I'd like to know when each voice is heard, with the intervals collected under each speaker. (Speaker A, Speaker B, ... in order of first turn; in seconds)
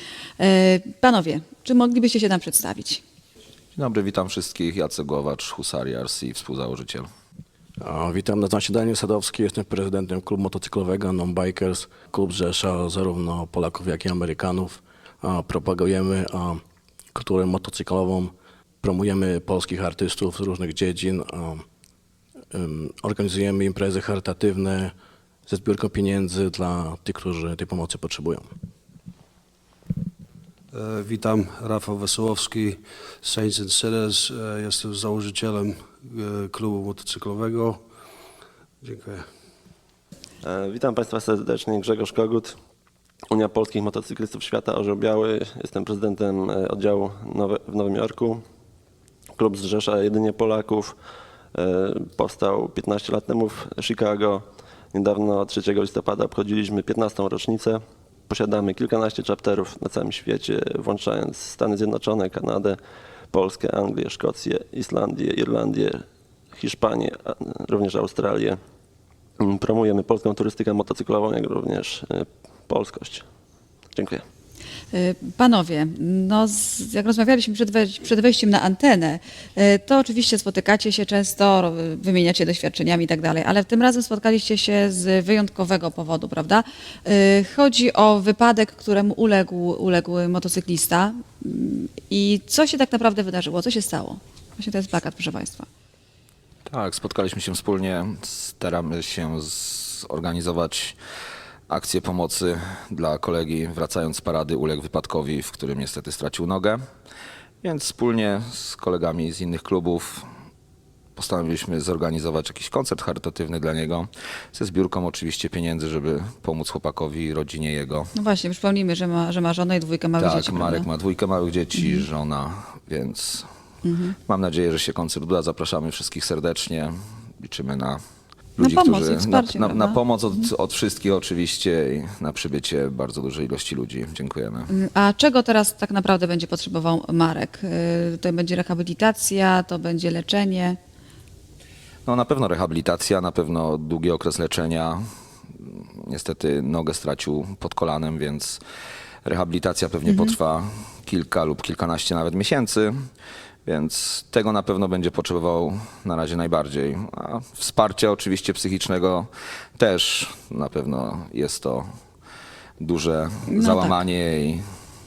Speaker A: 0.4-3.0, 74.9-95.7, 118.1-120.9, 121.7-122.0, 123.8-124.2, 128.6-130.0, 134.7-140.8, 150.1-150.3, 163.5-164.0
Speaker B: 3.8-7.1, 96.7-101.0, 101.7-106.8, 107.6-110.2, 111.2-118.1, 120.2-123.5, 124.3-128.0, 128.6-134.7, 142.1-145.0, 145.6-148.6, 149.2-152.9, 153.7-161.8, 162.8-164.6
Speaker C: 7.8-16.6, 17.1-21.6, 22.5-24.9, 25.5-28.5
Speaker D: 30.7-37.8, 38.8-39.2
Speaker E: 40.4-42.5, 43.3-48.4, 49.4-51.0, 51.5-62.8, 63.3-68.6, 69.4-73.2, 73.9-74.2